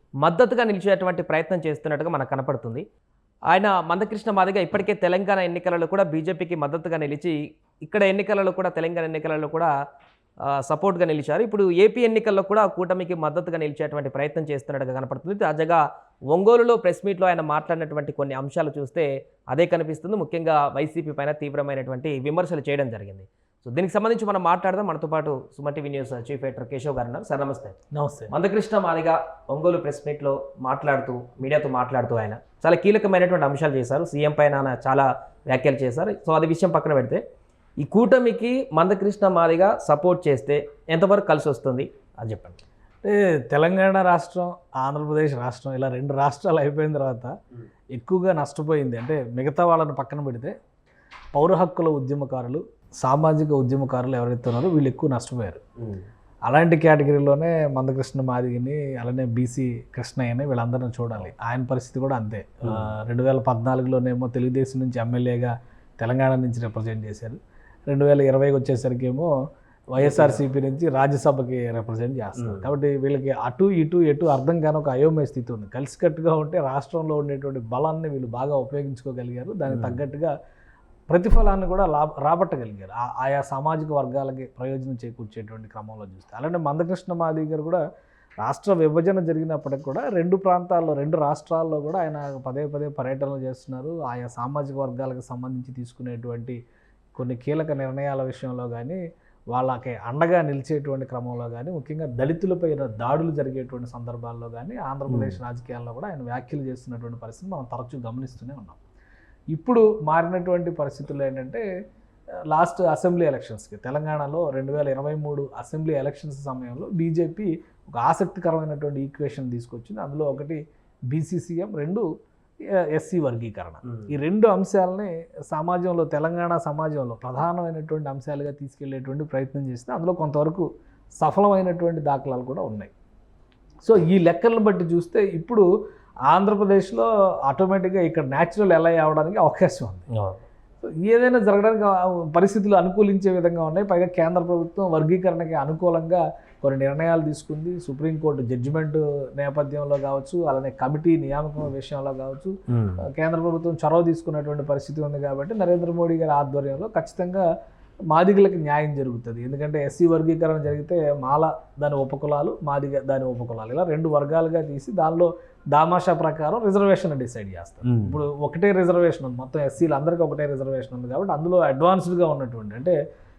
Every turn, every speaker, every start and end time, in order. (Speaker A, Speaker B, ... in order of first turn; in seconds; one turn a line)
Speaker A: 0.2-2.8
Speaker A: 3.5-9.7
Speaker A: 10.4-27.8
Speaker B: 27.9-28.3
Speaker A: 28.3-37.2
Speaker A: 37.8-42.6
Speaker B: 43.0-47.3
Speaker B: 47.9-50.5
Speaker B: 51.3-55.6
Speaker B: 56.5-67.3
Speaker B: 67.9-69.3
Speaker B: 69.9-80.3
Speaker A: 70.0-70.4
Speaker A: 72.4-72.7
Speaker A: 79.7-80.0
Speaker B: 81.1-87.8
Speaker B: 88.4-96.5
Speaker B: 97.2-99.0
Speaker B: 99.5-108.8
Speaker A: 105.1-105.4
Speaker B: 109.5-111.6
Speaker B: 112.5-120.6
Speaker B: 121.1-122.0
Speaker B: 122.7-130.7
Speaker B: 131.2-132.9
Speaker B: 133.8-135.6
Speaker B: 136.3-140.1
Speaker A: 140.1-140.4
Speaker B: 140.8-157.4
Speaker A: 152.7-153.0
Speaker B: 158.1-172.9
Speaker A: 167.8-168.2